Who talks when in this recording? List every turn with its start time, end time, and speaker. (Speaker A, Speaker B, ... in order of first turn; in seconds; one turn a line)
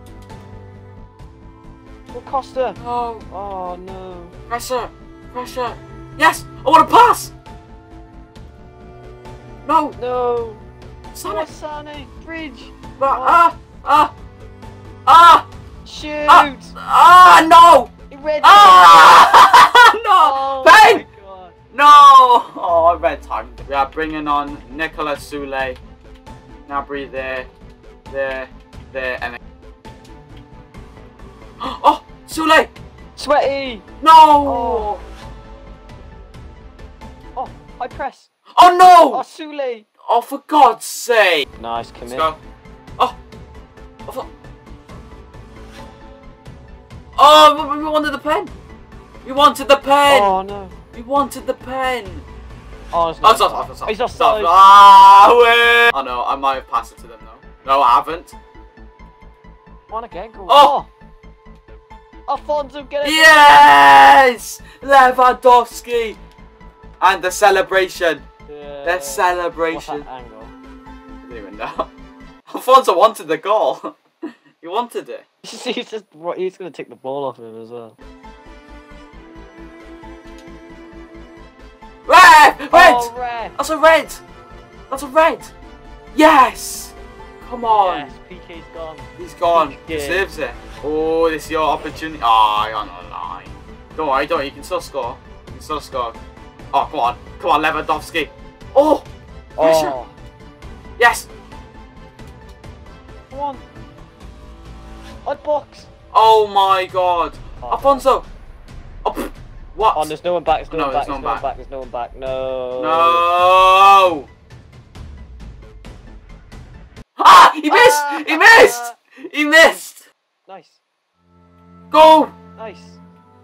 Speaker A: 2.1-2.8
Speaker B: 2.8-3.2
Speaker A: 3.3-4.3
Speaker B: 4.5-7.3
Speaker B: 9.6-9.9
Speaker A: 9.9-10.6
Speaker B: 11.1-11.5
Speaker A: 11.2-13.4
Speaker B: 13.0-14.1
Speaker B: 15.1-15.5
Speaker A: 15.8-16.7
Speaker B: 16.3-17.9
Speaker A: 18.1-19.4
Speaker B: 18.4-21.0
Speaker A: 20.2-21.5
Speaker B: 21.7-25.8
Speaker B: 26.7-27.5
Speaker B: 28.1-29.4
Speaker B: 31.6-32.7
Speaker A: 33.1-33.8
Speaker B: 34.0-35.0
Speaker A: 34.4-34.9
Speaker A: 37.3-38.3
Speaker B: 38.5-39.2
Speaker A: 39.1-39.9
Speaker B: 40.1-41.5
Speaker A: 41.6-42.3
Speaker B: 42.1-42.4
Speaker B: 47.2-48.5
Speaker B: 49.2-50.4
Speaker A: 50.1-50.8
Speaker B: 50.9-52.2
Speaker A: 52.9-54.5
Speaker B: 53.2-58.4
Speaker A: 59.9-60.9
Speaker B: 60.5-60.7
Speaker A: 62.3-63.5
Speaker B: 63.0-66.2
Speaker B: 67.0-68.2
Speaker A: 68.5-70.5
Speaker B: 68.8-70.0
Speaker B: 71.2-71.9
Speaker B: 72.5-74.0
Speaker B: 74.6-75.2
Speaker A: 75.4-78.0
Speaker B: 82.0-84.2
Speaker A: 82.7-83.5
Speaker B: 84.9-85.5
Speaker B: 86.1-88.1
Speaker A: 87.7-90.3
Speaker B: 89.2-96.2
Speaker B: 96.7-99.0
Speaker A: 99.6-100.1
Speaker B: 99.6-99.9
Speaker B: 101.0-101.3
Speaker A: 103.3-103.6
Speaker A: 105.2-105.9
Speaker B: 106.1-108.2
Speaker A: 107.6-108.1
Speaker B: 109.0-110.1
Speaker A: 109.9-113.2
Speaker B: 110.7-111.4
Speaker B: 112.8-114.3
Speaker B: 117.2-120.0
Speaker A: 117.7-119.0
Speaker A: 120.5-120.8
Speaker B: 121.9-122.3
Speaker A: 122.6-123.0